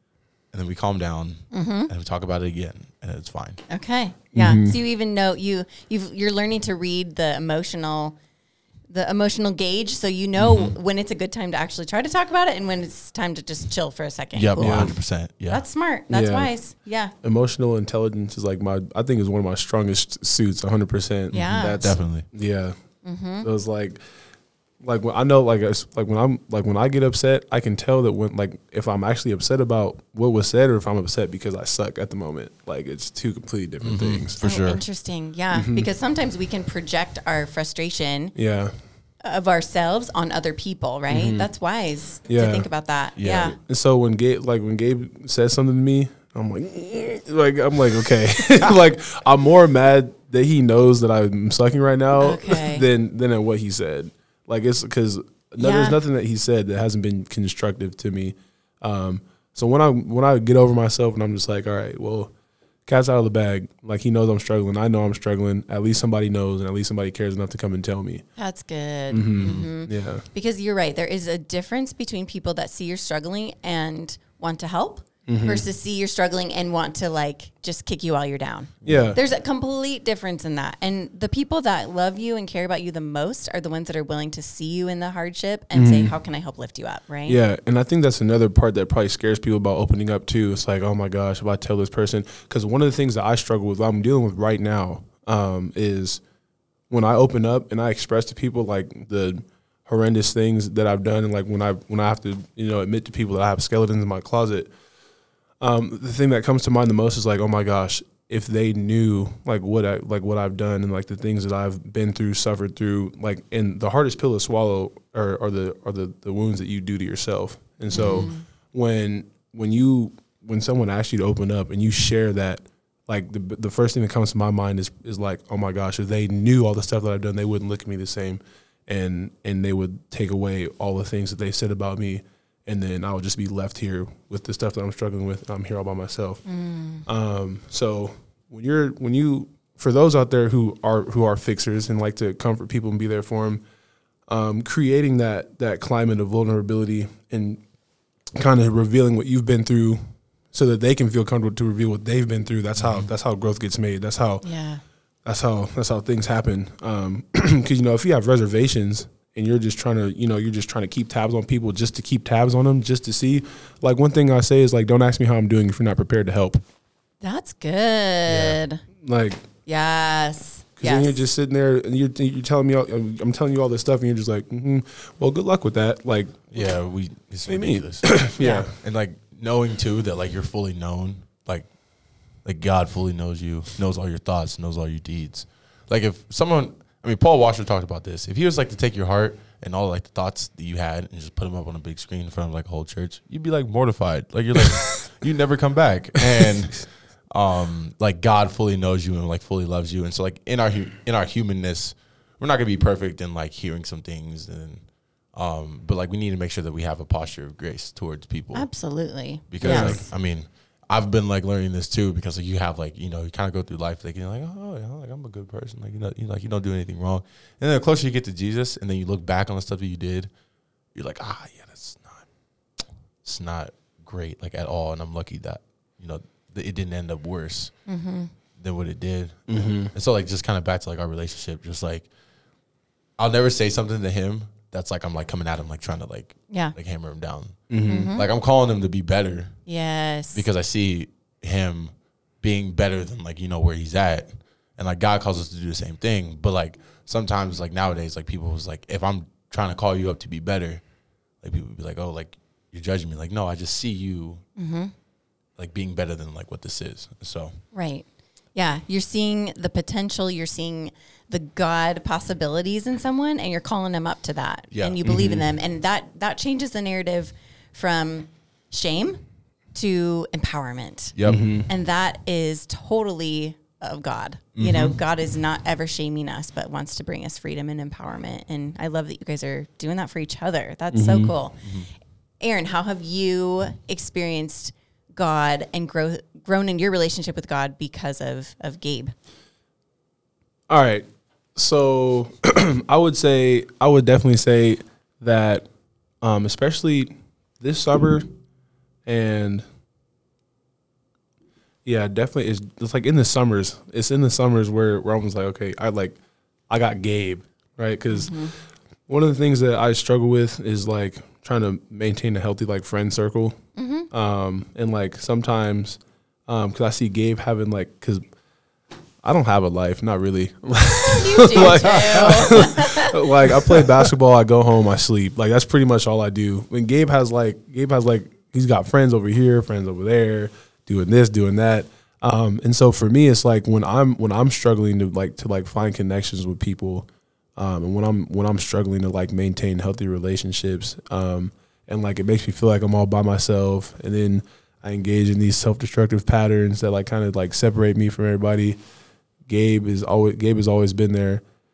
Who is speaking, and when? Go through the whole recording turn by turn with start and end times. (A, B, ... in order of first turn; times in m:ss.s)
0:00.5-0:03.6 A
0:01.5-0:01.9 B
0:03.7-0:08.2 B
0:04.3-0:04.8 C
0:08.9-0:17.1 B
0:10.4-0:10.7 A
0:14.3-0:15.6 A
0:14.6-0:15.0 C
0:16.1-0:16.5 C
0:17.2-0:22.8 C
0:21.3-0:22.3 A
0:21.3-0:21.8 B
0:23.0-0:23.5 B
0:23.4-0:24.0 C
0:24.8-0:34.4 C
0:33.8-0:34.8 A
0:34.4-0:38.4 B
0:35.5-0:35.9 C
0:38.4-0:38.8 C
0:39.2-0:43.6 B
0:41.1-0:41.5 C
0:42.3-0:42.7 C
0:43.2-0:43.6 A
0:43.5-1:02.3 C
0:52.2-0:52.8 B
0:55.6-0:56.0 B
1:02.9-1:08.2 C
1:08.4-1:27.4 B
1:09.1-1:10.3 C
1:09.4-1:09.7 A
1:15.3-1:15.6 C
1:18.8-1:19.2 C
1:25.7-1:26.2 C
1:27.3-1:36.2 C
1:36.9-1:44.7 C
1:45.6-2:16.4 C
1:57.9-1:58.4 B
2:16.5-2:17.1 B
2:17.0-2:23.6 C
2:24.3-2:27.6 C
2:28.3-2:34.5 C
2:32.8-2:33.1 A
2:34.4-2:34.8 B
2:35.2-2:46.6 C
2:47.2-2:48.8 B
2:48.3-2:49.5 C
2:49.7-2:51.2 B
2:50.8-2:56.8 C
2:56.5-3:01.7 A
2:57.5-2:58.8 C
2:58.4-2:58.7 B
3:02.4-3:28.7 A
3:28.5-3:30.1 B
3:29.5-3:40.3 A
3:29.6-3:30.1 C
3:40.9-3:42.3 A
3:43.2-3:47.8 A
3:47.9-3:48.3 B
3:48.6-3:52.1 A
3:49.5-3:49.9 C
3:53.2-3:59.6 A
3:57.7-3:58.1 C
3:57.9-3:58.2 B
3:59.7-4:00.4 B
4:00.3-4:10.8 A
4:11.4-4:14.4 A
4:14.6-4:14.9 B
4:15.6-4:17.6 A
4:17.7-4:29.2 B
4:24.7-4:25.0 A
4:25.0-4:25.4 C
4:29.7-4:31.2 B
4:31.2-4:31.4 A
4:31.3-4:31.7 C
4:31.7-4:41.6 B
4:34.6-4:35.0 A
4:40.9-4:41.3 C
4:41.6-4:41.9 A
4:42.4-4:49.1 B
4:50.7-4:55.7 C
4:56.2-4:58.3 C
4:59.0-4:59.6 C
5:01.8-5:13.6 C
5:08.1-5:08.5 B
5:13.8-5:14.1 B
5:14.1-5:18.2 C
5:19.2-5:48.8 C
5:21.0-5:23.2 B
5:21.7-5:22.6 A
5:49.5-5:51.4 C